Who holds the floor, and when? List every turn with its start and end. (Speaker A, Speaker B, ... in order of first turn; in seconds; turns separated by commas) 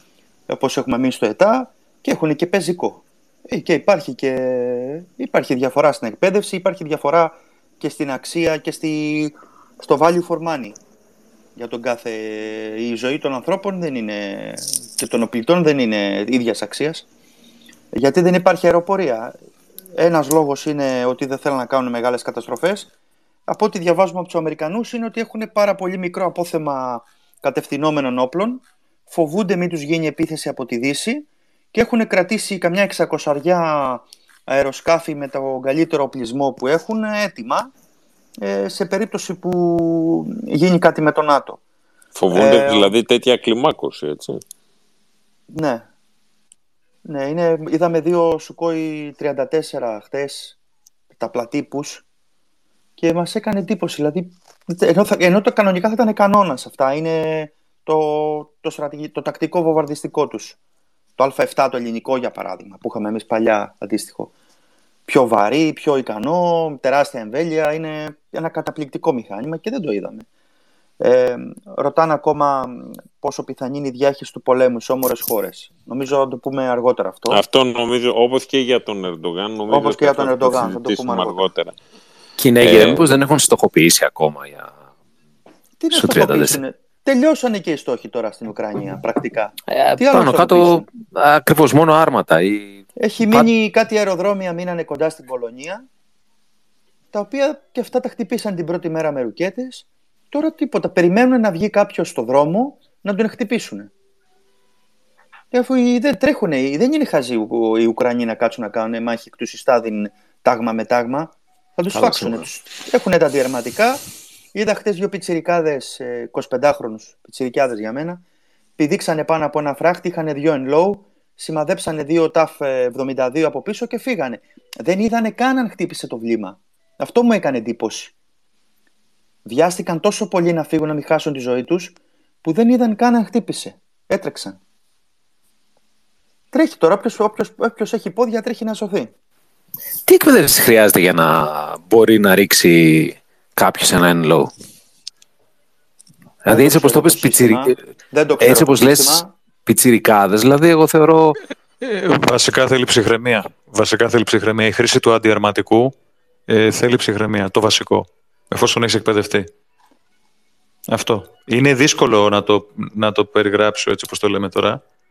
Speaker A: 0.5-10.8, Speaker A: 11.6-17.1, Speaker A: 17.9-19.3, Speaker A: 19.9-22.9, Speaker A: 23.5-37.7, Speaker A: 38.4-41.6, Speaker B: 42.2-44.4, Speaker A: 42.3-43.0, Speaker A: 45.5-45.9, Speaker A: 47.0-50.6, Speaker A: 51.2-52.0, Speaker A: 53.0-60.6, Speaker A: 61.2-64.3, Speaker A: 65.1-70.3, Speaker A: 71.0-77.4, Speaker B: 77.3-81.8, Speaker A: 79.7-81.5, Speaker C: 82.4-84.7, Speaker B: 82.6-83.1, Speaker A: 85.8-90.9, Speaker C: 85.9-86.6, Speaker C: 89.7-93.5, Speaker A: 93.0-95.9, Speaker A: 97.1-103.9, Speaker A: 105.5-118.2, Speaker A: 118.8-128.1, Speaker A: 129.5-134.6, Speaker A: 136.5-139.1, Speaker C: 140.1-144.5, Speaker C: 146.4-147.8, Speaker A: 146.5-149.3, Speaker C: 148.4-151.4, Speaker D: 151.8-155.9, Speaker D: 156.5-159.5, Speaker D: 160.9-164.8